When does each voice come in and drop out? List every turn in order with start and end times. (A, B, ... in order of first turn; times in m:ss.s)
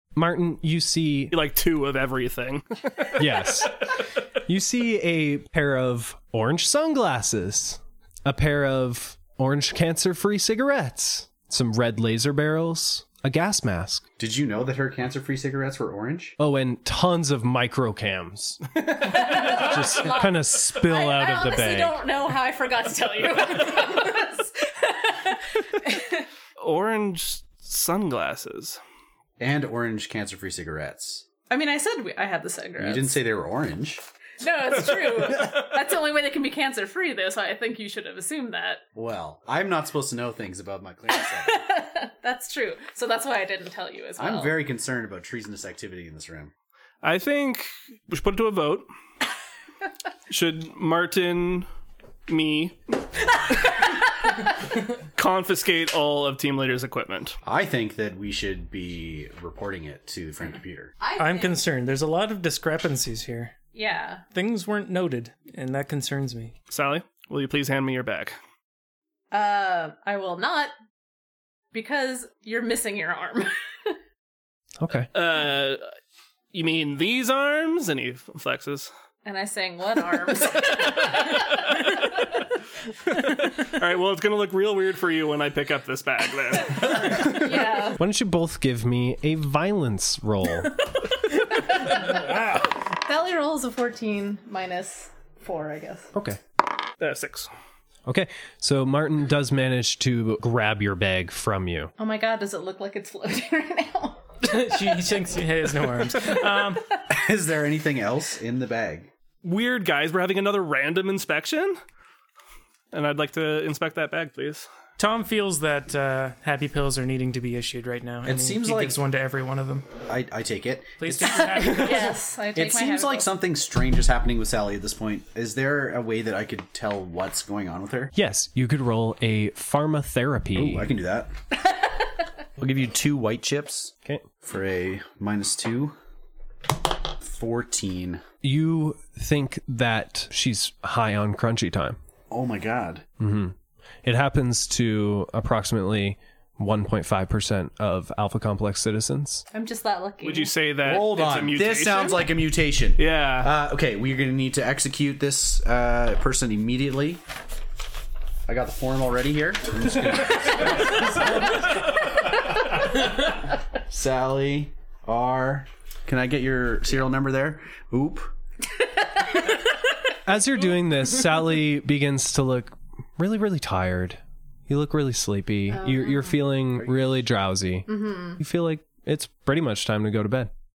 0:00.2-0:01.3 A
0:01.3-0:03.2 B
0:03.2-0:14.1 A
0:14.2-0:16.4 C
0:16.4-0:22.0 A
0:19.0-0:26.3 D
0:26.6-0:28.8 B
0:29.4-0:31.3 C
0:31.5-0:33.2 D
0:32.8-0:34.0 C
0:34.4-0:38.8 D
0:39.0-0:41.7 C
0:41.2-0:44.6 D
0:44.2-0:46.5 C
0:47.0-0:48.9 B
0:50.3-0:51.7 B
0:52.3-0:52.8 B
0:55.2-0:57.4 B
0:57.4-1:00.9 C
1:01.0-1:01.7 D
1:01.2-1:03.5 E
1:03.7-1:04.2 D
1:04.3-1:06.6 E
1:06.7-1:08.4 B
1:09.3-1:10.7 D
1:11.7-1:13.9 D
1:14.8-1:15.1 A
1:15.1-1:15.9 B
1:16.5-1:18.9 B
1:19.2-1:21.6 D
1:21.4-1:21.9 B
1:23.1-1:27.4 B
1:26.9-1:28.0 D
1:28.0-1:30.8 A
1:31.8-1:36.1 D
1:36.1-1:36.4 A
1:37.0-1:37.5 B
1:38.1-1:41.9 A
1:42.0-1:44.4 D
1:44.4-1:46.8 E
1:47.1-1:49.1 C
1:49.4-1:51.8 B
1:52.9-1:54.7 B
1:55.0-1:59.9 E
1:58.2-1:59.0 C
2:00.1-2:08.1 C
2:01.0-2:02.2 E
2:01.5-2:03.3 D
2:08.1-2:10.9 A
2:10.6-2:11.3 C
2:12.6-2:16.0 C
2:17.1-2:18.2 C
2:18.4-2:22.0 A
2:22.3-2:23.1 C
2:23.2-2:29.5 A
2:29.5-2:30.5 D
2:30.2-2:32.4 B
2:30.8-2:37.2 C
2:33.0-2:33.5 B
2:38.5-2:41.8 C
2:43.8-2:48.3 C
2:50.2-3:00.5 A
2:55.7-2:56.4 D
2:56.8-2:57.2 C
2:57.9-2:58.4 D